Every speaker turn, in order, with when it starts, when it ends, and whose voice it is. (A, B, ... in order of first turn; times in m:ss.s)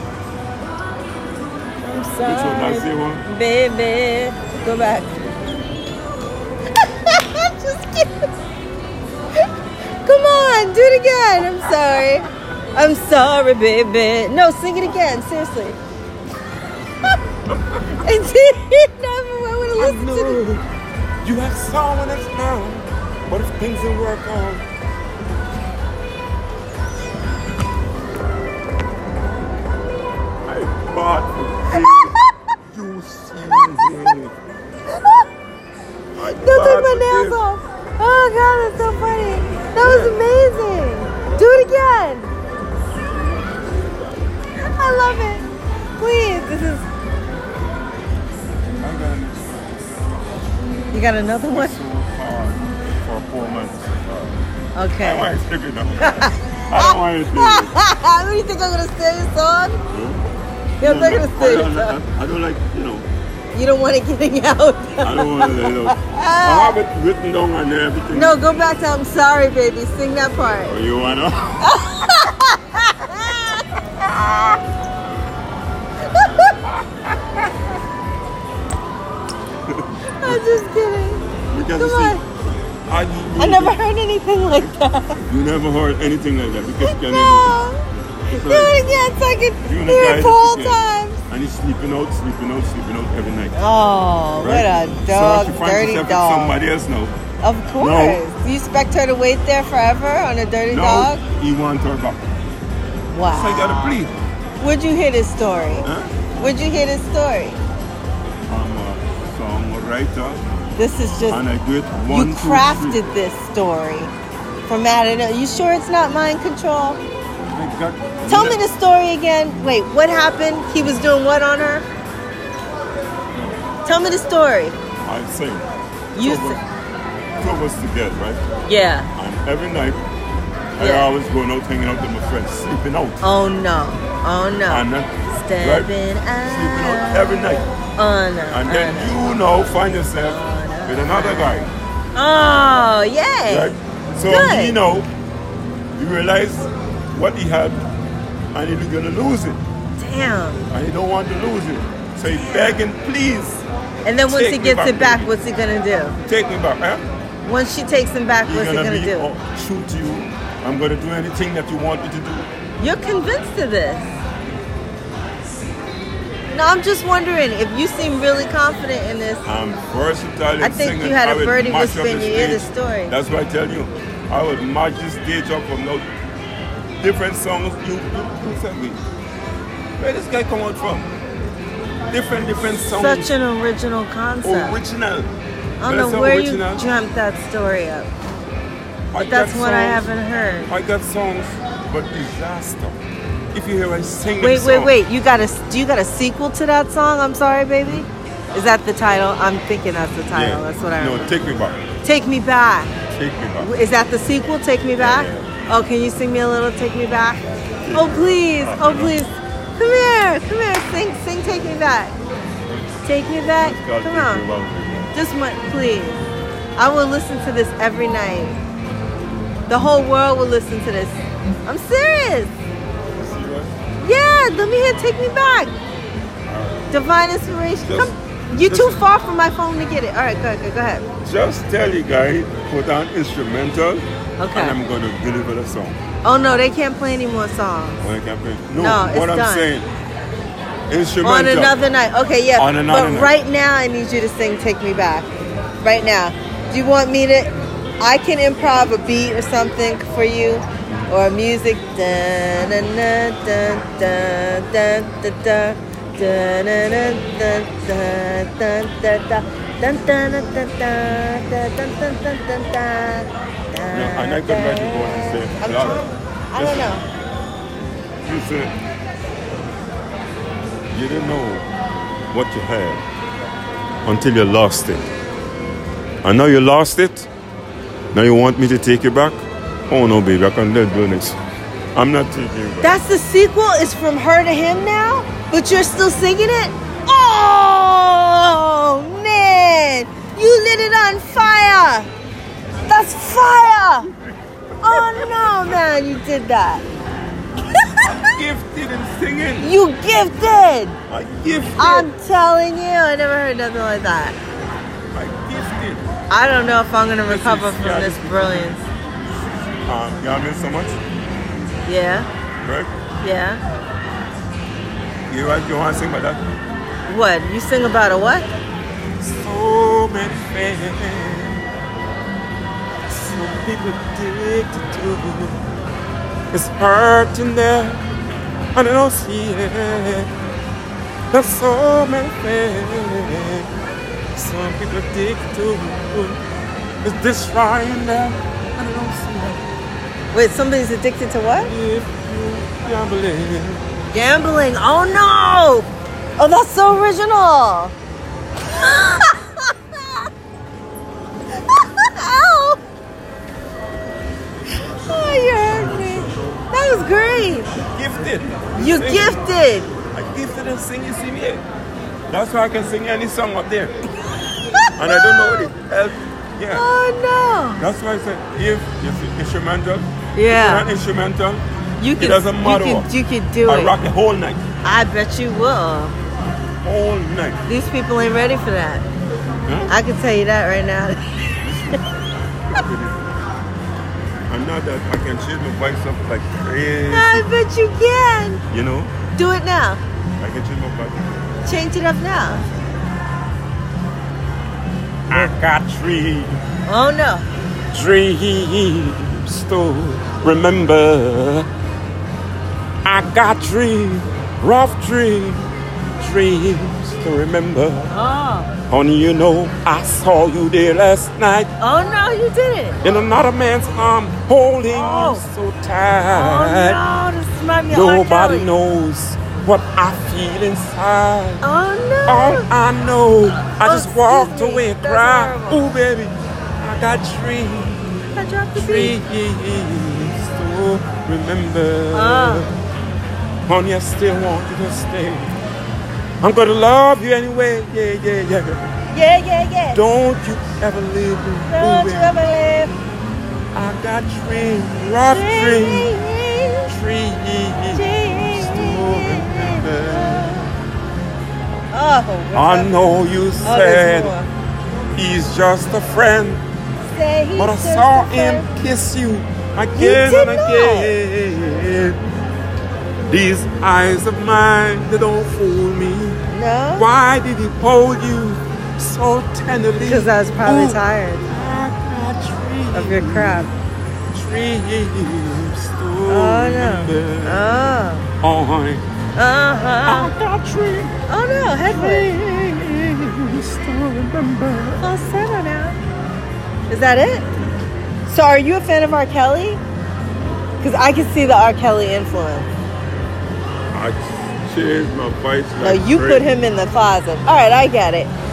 0:01.8-0:05.3 A
0:02.2-0:03.2 B
0:06.8-0:08.3 A
0:10.0-0:15.8 A
0:18.0-0:20.4 A
0:19.8-0:20.6 B
0:21.2-0:24.7 B
0:30.5-0:34.3 B
0:31.7-0:32.3 A
0:34.9-0:35.3 A
0:36.2-0:37.4 B
0:36.2-0:42.3 A
0:39.8-0:40.2 B
0:44.6-0:45.5 A
0:46.0-0:46.8 A
0:48.8-0:49.8 B
0:50.9-0:51.8 A
0:51.5-0:54.4 B
0:54.8-0:55.3 A
0:55.0-0:57.7 B
0:56.0-0:59.8 A
0:59.9-1:00.2 B
1:00.8-1:02.0 A
1:00.8-1:03.1 B
1:03.5-1:06.8 A
1:05.0-1:08.4 B
1:08.1-1:10.7 A
1:10.7-1:11.6 B
1:11.6-1:13.6 A
1:14.0-1:14.6 B
1:16.1-1:16.5 A
1:19.7-1:20.4 B
1:20.2-1:22.2 A
1:21.5-1:22.2 B
1:22.9-1:23.8 B
1:23.4-1:25.2 A
1:25.3-1:27.6 B
1:26.8-1:31.2 A
1:28.3-1:28.8 B
1:29.6-1:33.6 B
1:33.6-1:36.6 A
1:34.4-1:37.2 B
1:37.4-1:41.2 A
1:37.8-1:38.2 B
1:40.7-1:42.2 B
1:43.1-1:44.0 A
1:43.3-1:44.1 B
1:44.6-1:47.6 A
1:45.8-1:46.1 B
1:48.5-1:50.4 B
1:50.8-1:51.4 A
1:51.3-1:53.1 B
1:52.1-1:54.1 A
1:54.7-1:57.0 A
1:57.5-1:58.6 B
1:58.2-2:01.8 A
2:03.8-2:04.8 A
2:05.0-2:06.6 B
2:06.2-2:06.6 A
2:07.4-2:08.4 B
2:08.7-2:09.1 A
2:09.2-2:10.0 B
2:10.8-2:13.2 B
2:10.8-2:11.1 A
2:13.2-2:19.3 A
2:14.7-2:15.9 B
2:16.5-2:17.7 B
2:18.5-2:21.7 B
2:20.1-2:24.8 A
2:23.5-2:25.1 B
2:26.0-2:27.8 B
2:28.5-2:29.6 B
2:30.0-2:30.7 A
2:30.7-2:33.6 B
2:32.3-2:32.8 A
2:34.0-2:36.2 A
2:34.3-2:35.3 B
2:36.3-2:37.0 B
2:37.4-2:39.3 A
2:38.5-2:42.5 B
2:42.8-2:44.1 A
2:46.5-2:49.4 A
2:49.4-2:56.1 B
2:50.6-2:53.1 A
2:57.0-2:59.0 B
3:00.0-3:01.1 B
3:02.1-3:03.3 B
3:02.9-3:04.8 A
3:04.4-3:05.3 B
3:05.8-3:08.1 A
3:05.8-3:06.9 B
3:09.1-3:10.1 B
3:09.2-3:10.7 A
3:10.7-3:13.0 B
3:13.5-3:15.0 B
3:14.4-3:21.4 A
3:20.3-3:21.8 B
3:22.0-3:22.9 A
3:23.1-3:23.7 B
3:23.6-3:32.2 A
3:25.0-3:25.5 B
3:27.9-3:29.2 B
3:33.0-3:34.4 A
3:33.6-3:35.1 B
3:35.1-3:36.2 A
3:36.8-3:38.6 A
3:39.7-3:42.5 A
3:43.2-3:43.7 B
3:44.0-3:45.8 A
3:46.5-3:46.9 B
3:46.9-3:51.0 A
3:47.8-3:49.0 B
3:51.2-3:56.0 B
3:54.4-3:54.8 A
3:56.2-3:58.0 A
3:58.0-3:59.9 B
3:58.8-3:59.7 A
4:00.9-4:01.7 B
4:01.2-4:05.3 A
4:02.6-4:03.4 B
4:05.8-4:27.0 A
4:23.9-4:27.0 B
4:28.2-4:28.8 B
4:30.9-4:31.7 B
4:32.3-4:33.0 B
4:34.0-4:35.1 B
4:36.2-4:37.3 B
4:38.1-4:41.4 B
4:42.0-4:43.0 B
4:42.8-4:52.1 A
4:52.9-4:54.1 A
4:54.8-4:56.8 A
4:54.9-4:55.6 B
4:57.7-4:58.4 A
4:58.0-4:59.7 B
4:59.6-5:01.0 A
5:01.1-5:02.1 B
5:01.8-5:04.4 A
5:05.1-5:06.0 B
5:06.3-5:08.8 A
5:07.3-5:08.8 B
5:09.9-5:11.0 B
5:11.9-5:12.3 A
5:12.6-5:12.9 B
5:13.2-5:13.6 A
5:15.3-5:16.4 B
5:17.1-5:18.5 A
5:19.2-5:21.6 B
5:23.1-5:25.6 B
5:26.5-5:28.0 B
5:28.8-5:30.3 B
5:31.3-5:33.7 B
5:34.4-5:36.4 B
5:37.0-5:39.6 B
5:40.3-5:41.7 A
5:41.6-5:43.8 B
5:44.1-5:45.9 A
5:46.4-5:47.9 A
5:48.7-5:50.2 A
5:51.6-5:52.8 A
5:55.0-5:57.7 A
5:57.8-5:59.4 B
5:58.8-5:59.9 A
6:00.1-6:01.6 B
6:02.3-6:03.9 B
6:04.8-6:05.7 A
6:05.0-6:06.8 B
6:06.7-6:07.8 A
6:07.8-6:11.6 B
6:10.4-6:10.8 A
6:12.0-6:14.0 A
6:12.2-6:13.1 B
6:13.6-6:14.6 B
6:14.8-6:16.2 A
6:16.8-6:17.6 B
6:17.7-6:19.1 A
6:19.7-6:19.9 B
6:19.9-6:21.6 A
6:21.6-6:22.0 B
6:22.7-6:23.2 B
6:24.5-6:27.5 B
6:27.1-6:28.6 A
6:28.7-6:29.1 B
6:29.4-6:30.0 A
6:30.4-6:31.4 B
6:31.6-6:32.6 A
6:35.3-6:36.6 B
6:36.9-6:37.5 A
6:37.9-6:41.7 B
6:43.0-6:45.7 B
6:46.2-6:48.1 B
6:48.1-6:48.7 A
6:48.9-6:51.7 B
6:51.8-6:53.0 A
6:53.0-6:57.0 B
6:54.9-6:55.4 A
6:56.3-6:58.7 A
6:57.9-7:01.6 B
7:01.6-7:02.7 A
7:02.3-7:08.2 B
7:03.8-7:05.9 A
7:08.4-7:09.2 A
7:08.8-7:12.8 B
7:12.1-7:12.7 A
7:13.7-7:15.6 B
7:16.4-7:18.9 B
7:19.1-7:20.1 A
7:19.9-7:22.4 B
7:21.7-7:22.9 A
7:23.7-7:26.1 B
7:25.3-7:26.9 A
7:26.9-7:30.7 B
7:28.0-7:30.7 A
7:31.9-7:32.9 A
7:32.6-7:34.3 B
7:33.6-7:34.5 A
7:35.2-7:36.6 B
7:37.1-7:38.6 A
7:37.6-7:42.2 B
7:40.0-7:41.2 A
7:43.3-7:46.4 B
7:46.5-7:47.1 A
7:47.0-7:53.7 B
7:50.1-7:51.5 A
7:52.9-7:53.7 A
7:54.3-7:59.0 B
7:56.3-7:58.3 A
7:59.4-8:00.3 A
8:00.0-8:01.2 B
8:01.3-8:02.3 A
8:01.8-8:05.2 B
8:05.0-8:06.0 A
8:06.9-8:07.5 A
8:08.3-8:09.8 A
8:10.8-8:12.7 A
8:13.9-8:16.5 B
8:15.8-8:18.3 A